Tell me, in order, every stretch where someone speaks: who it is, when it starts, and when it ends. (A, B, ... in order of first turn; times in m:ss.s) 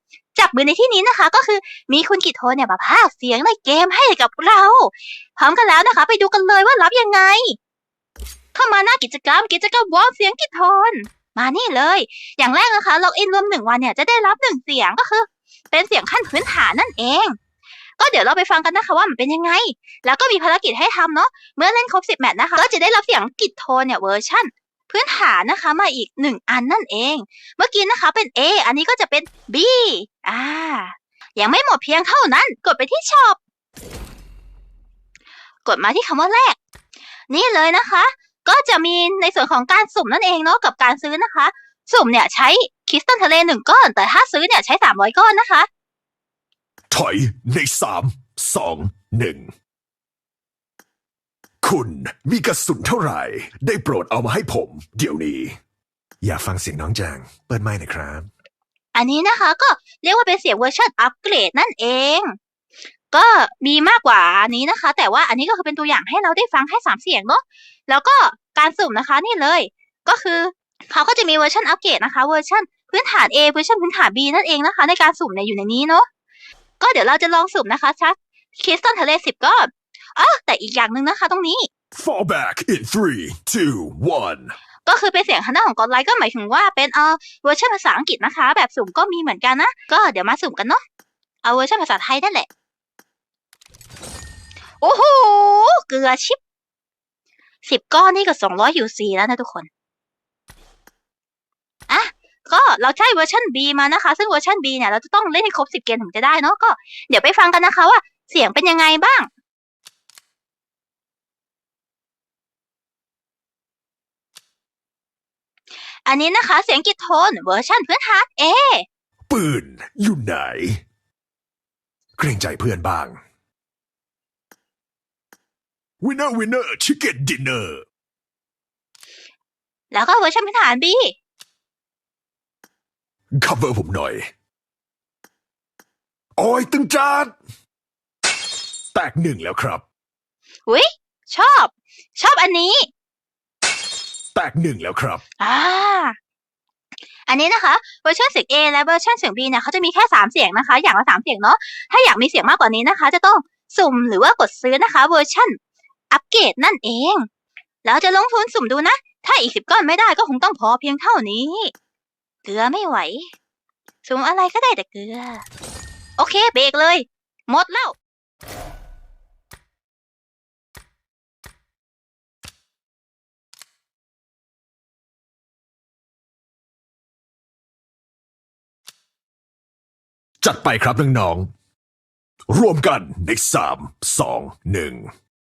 0:00.3-0:07.6 A
0:08.5-0:17.4 A
0:18.0-0:33.4 A
0:35.6-0:36.6 A
0:37.3-0:45.7 A
0:46.9-0:49.5 B
0:51.6-0:55.6 B
0:56.2-0:58.3 B
0:58.9-1:02.4 A
1:03.1-1:16.0 A
1:16.8-1:21.7 A
1:21.9-1:24.5 B
1:24.8-1:30.8 A
1:31.4-1:32.5 A
1:34.8-1:36.4 A
1:37.6-1:39.7 A
1:41.9-1:49.3 A
1:56.0-1:58.8 A
1:59.3-2:00.8 B
2:02.2-2:03.2 B
2:06.0-2:07.8 B
2:09.9-2:11.2 A
2:13.4-2:14.2 B
2:16.4-2:17.3 B
2:18.9-2:19.8 B
2:20.7-2:22.9 A
2:24.3-2:25.2 B
2:25.4-2:26.1 A
2:27.3-2:35.6 A
2:36.1-2:37.3 A
2:37.8-2:41.7 A
2:42.4-2:43.3 A
2:44.0-2:45.4 A
2:46.2-2:48.0 A
3:00.4-3:01.5 B
3:02.5-3:05.1 B